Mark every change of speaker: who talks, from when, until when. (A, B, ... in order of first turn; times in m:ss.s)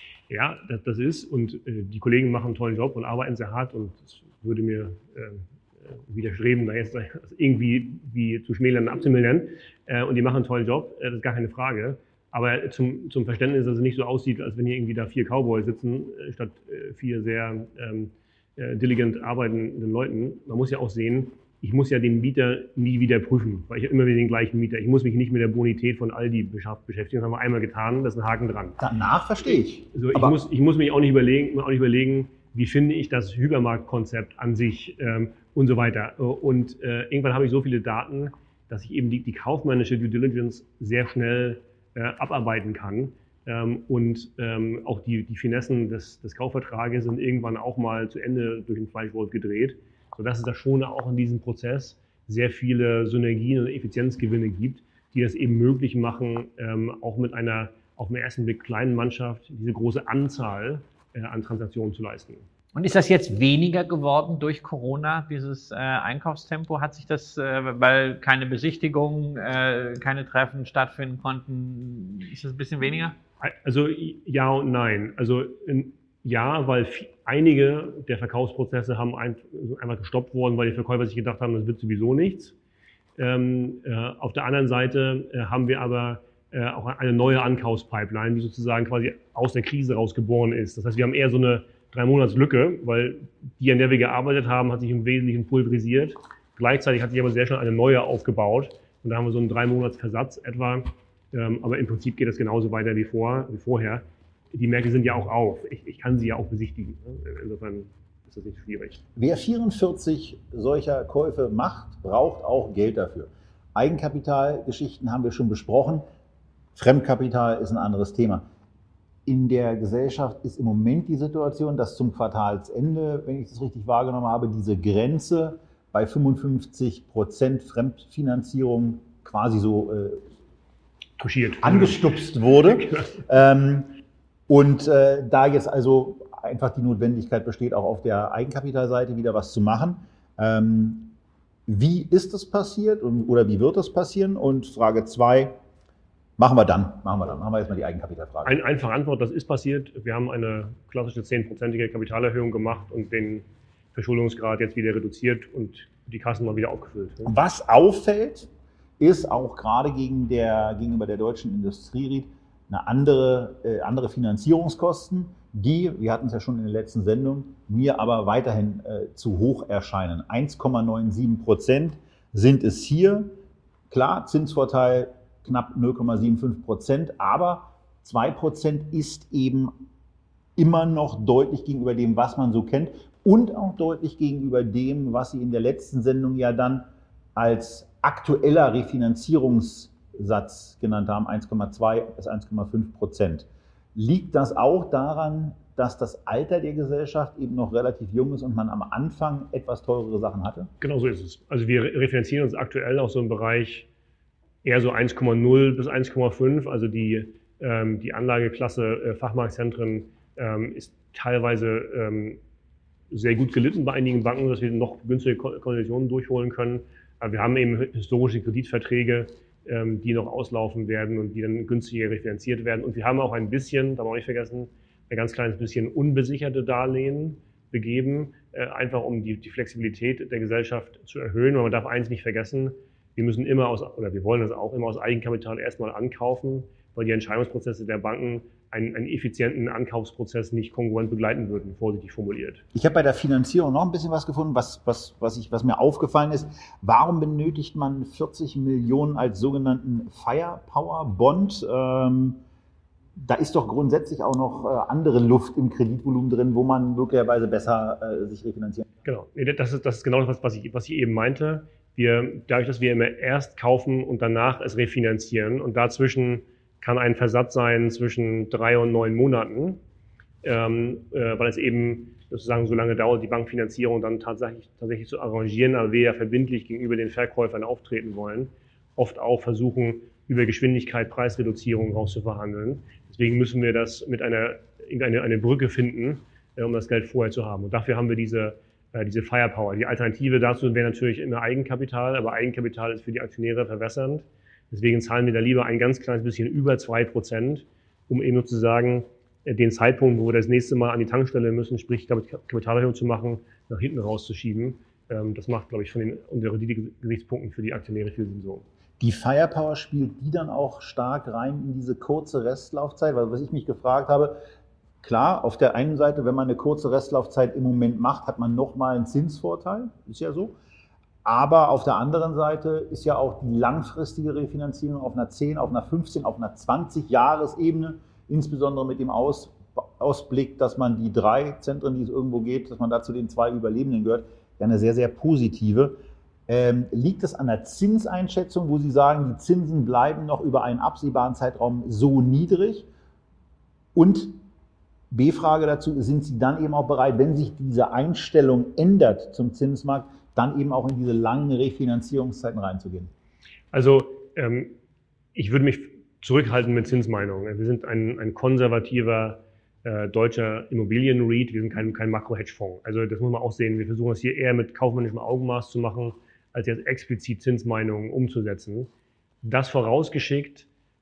0:00.3-0:28.8 A
0:28.8-0:30.4 B
0:29.9-1:02.4 A
1:02.7-1:13.1 C
1:13.4-1:22.5 A
1:23.2-1:49.0 A
1:49.2-1:56.0 B
1:56.7-1:58.4 B
1:59.2-2:10.2 B
2:11.2-2:12.1 A
2:11.6-2:13.9 B
2:12.7-2:13.1 A
2:14.5-2:21.1 B
2:21.7-2:25.6 B
2:26.4-2:28.6 B
2:28.4-2:37.3 A
2:37.2-2:53.4 B
2:53.9-2:59.7 B
3:00.6-3:20.7 B
3:20.8-3:23.9 A
3:24.6-3:32.4 A
3:33.1-4:02.6 A
4:02.7-4:12.4 B
4:13.2-4:18.9 B
4:19.0-4:29.8 A
4:30.4-5:08.6 A
5:09.0-5:14.4 B
5:15.0-5:20.5 B
5:21.2-5:42.8 B
5:43.9-5:44.4 B
5:45.1-5:53.1 B
5:53.7-5:54.7 A
5:55.3-6:08.9 A
6:09.4-6:10.6 A